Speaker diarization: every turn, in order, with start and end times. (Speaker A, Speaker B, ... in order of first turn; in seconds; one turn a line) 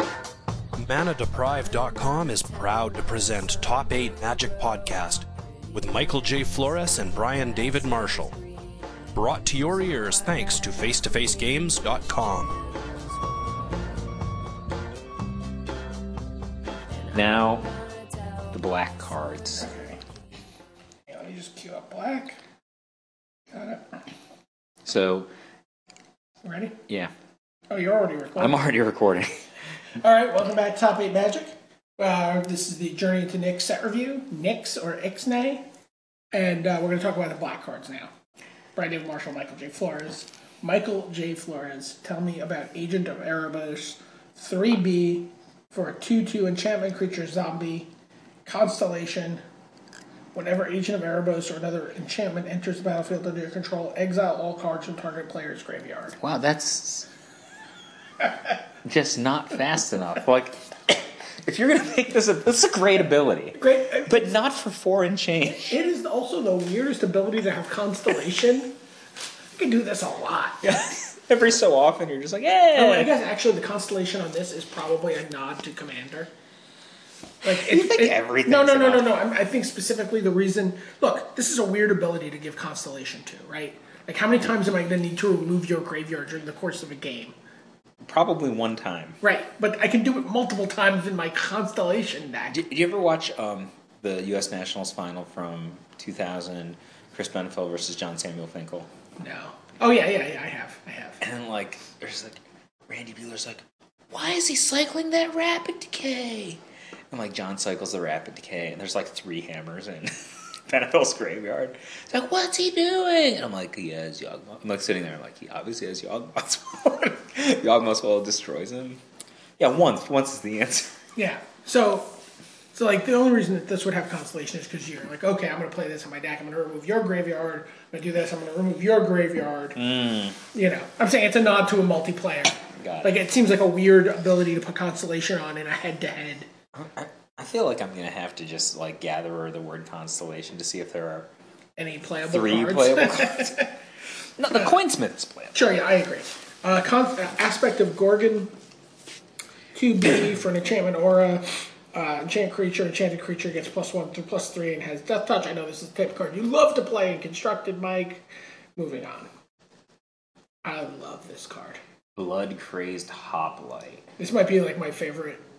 Speaker A: 0.8-8.3
Speaker A: 9.1-12.6
Speaker B: 17.1-17.7
Speaker B: 18.5-19.7
Speaker C: 19.6-20.0
Speaker C: 21.1-22.4
Speaker C: 23.5-23.9
Speaker B: 24.8-25.3
Speaker C: 26.4-26.8
Speaker C: 27.7-28.6
Speaker B: 28.4-29.4
Speaker C: 29.9-35.6
Speaker C: 36.3-38.1
Speaker C: 38.8-47.9
Speaker C: 48.4-49.4
Speaker C: 50.3-56.2
Speaker B: 56.2-57.1
Speaker B: 58.8-65.8
Speaker C: 63.5-64.3
Speaker C: 65.7-68.7
Speaker C: 69.5-70.9
Speaker B: 70.7-73.1
Speaker C: 72.7-76.3
Speaker C: 77.4-87.3
Speaker B: 77.5-79.1
Speaker B: 88.0-89.2
Speaker C: 89.2-92.6
Speaker B: 92.5-98.9
Speaker C: 99.2-101.2
Speaker B: 101.2-106.6
Speaker B: 107.1-110.1
Speaker B: 110.7-119.0
Speaker B: 119.6-121.0
Speaker C: 121.2-122.2
Speaker C: 122.7-129.8
Speaker B: 129.8-130.4
Speaker C: 130.5-136.5
Speaker B: 132.8-133.2
Speaker B: 136.7-141.3
Speaker C: 141.8-143.7
Speaker B: 142.3-143.5
Speaker B: 144.4-145.6
Speaker C: 145.5-148.5
Speaker C: 149.7-158.2
Speaker C: 158.8-159.3
Speaker C: 160.6-161.8
Speaker B: 162.2-164.1
Speaker C: 164.2-165.4